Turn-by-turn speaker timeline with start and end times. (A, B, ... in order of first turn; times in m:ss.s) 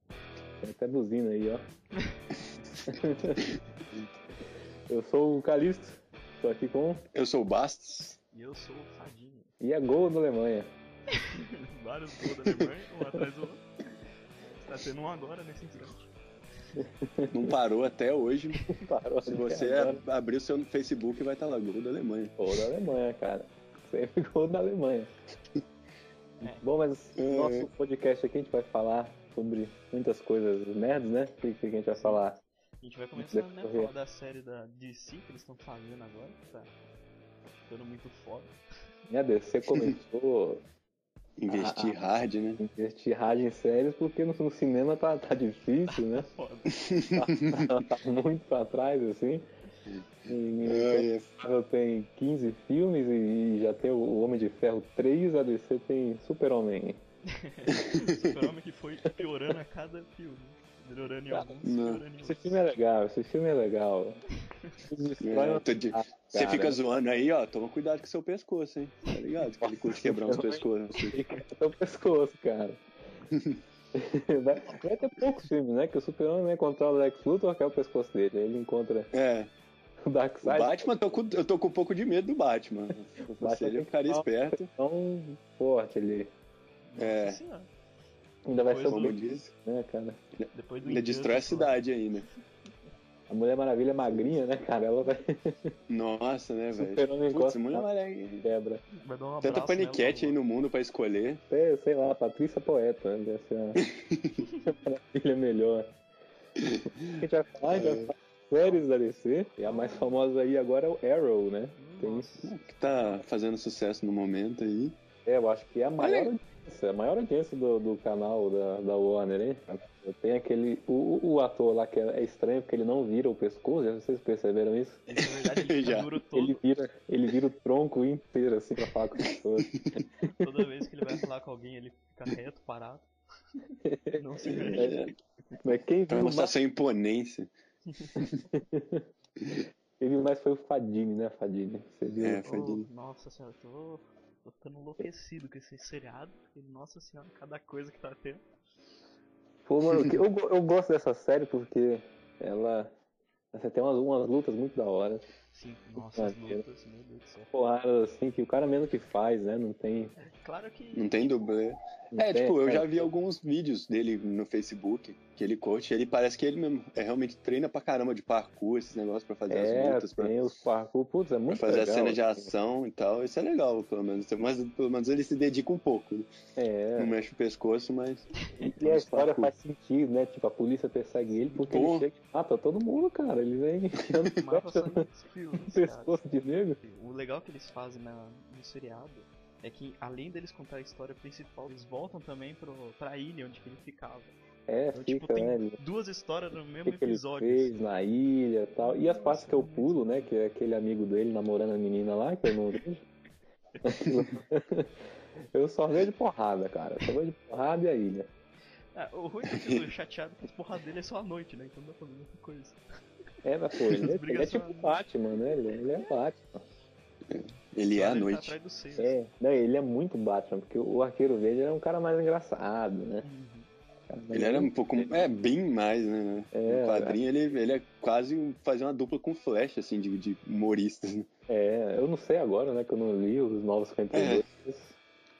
0:00.6-0:01.6 A
0:02.8-0:03.5 A
0:04.9-0:07.0 A
0:07.1-0:08.2 B
0:08.3-0:09.5 C
0:09.6-0:10.7 A
0:11.1-0:13.6 C
0:14.6-0:16.0 C
0:16.8-0:17.5 A
0:17.3-0:18.6 B
0:18.7-0:20.0 A
0:19.2-0:22.4 B
0:22.4-0:25.1 A
0:26.4-0:32.4 A
0:27.2-0:27.7 B
0:31.9-0:32.2 C
0:32.8-0:36.7 C
0:33.2-0:33.9 A
0:37.5-0:38.5 C
0:39.1-0:40.6 A
0:41.4-0:42.6 B
0:41.5-0:42.0 A
0:42.6-0:46.3 A
0:45.9-0:46.8 C
0:46.7-0:47.9 B
0:47.2-0:49.4 A
0:50.2-0:57.0 A
0:50.6-0:51.3 B
0:57.3-1:02.6 C
0:57.7-0:58.3 B
1:01.3-1:01.6 A
1:01.6-1:02.0 B
1:02.2-1:04.2 A
1:04.8-1:07.0 A
1:05.2-1:11.2 B
1:09.6-1:12.8 A
1:13.3-1:13.6 B
1:13.9-1:19.1 A
1:19.1-1:19.5 B
1:20.0-1:20.9 A
1:20.4-1:24.7 B
1:23.4-1:26.3 A
1:26.9-1:27.7 C
1:27.0-1:27.4 B
1:28.4-1:30.2 A
1:28.6-1:29.2 C
1:28.9-1:29.5 B
1:30.4-1:32.3 B
1:30.5-1:31.8 C
1:33.3-1:35.8 A
1:35.9-1:38.4 B
1:36.7-1:37.8 A
1:38.4-1:38.8 A
1:38.9-1:40.4 C
1:39.4-1:41.4 B
1:41.5-1:43.8 A
1:43.8-1:44.4 B
1:44.6-1:45.9 A
1:46.6-1:48.1 B
1:47.2-1:52.3 A
1:49.6-1:50.1 C
1:51.8-1:53.2 C
1:52.4-1:55.0 B
1:55.2-2:05.0 A
1:56.0-1:56.3 B
2:05.1-2:06.6 C
2:05.2-2:06.1 B
2:06.3-2:10.4 A
2:09.2-2:10.0 B
2:10.4-2:13.1 C
2:13.8-2:15.0 A
2:14.1-2:14.9 C
2:14.5-2:15.2 B
2:15.6-2:16.5 A
2:16.1-2:17.5 B
2:18.5-2:19.0 A
2:19.4-2:19.6 B
2:20.0-2:22.4 A
2:22.2-2:22.9 B
2:22.4-2:28.4 C
2:29.6-2:32.9 A
2:33.5-2:35.2 A
2:35.5-2:37.5 C
2:36.0-2:36.6 A
2:37.5-2:40.1 A
2:40.2-2:41.4 C
2:40.9-2:50.3 B
2:42.1-2:43.1 A
2:49.5-2:52.5 A
2:51.5-2:56.3 B
2:56.6-2:57.1 A
2:57.0-2:59.5 B
2:58.8-3:05.0 A
3:01.6-3:02.1 B
3:04.4-3:06.2 C
3:05.6-3:06.8 A
3:06.8-3:14.3 C
3:14.7-3:15.8 A
3:14.9-3:17.7 C
3:16.8-3:23.0 A
3:18.8-3:20.3 C
3:23.8-3:24.9 A
3:25.5-3:28.3 A
3:28.9-3:32.8 C
3:29.5-3:29.8 B
3:33.4-3:36.6 A
3:33.9-3:35.0 C
3:35.7-3:36.2 C
3:37.3-3:38.5 B
3:37.9-3:39.2 C
3:38.9-3:43.3 A
3:43.2-3:43.7 C
3:44.1-3:45.2 A
3:44.3-3:51.3 B
3:46.5-3:47.2 A
3:51.5-3:54.9 A
3:54.1-3:54.4 B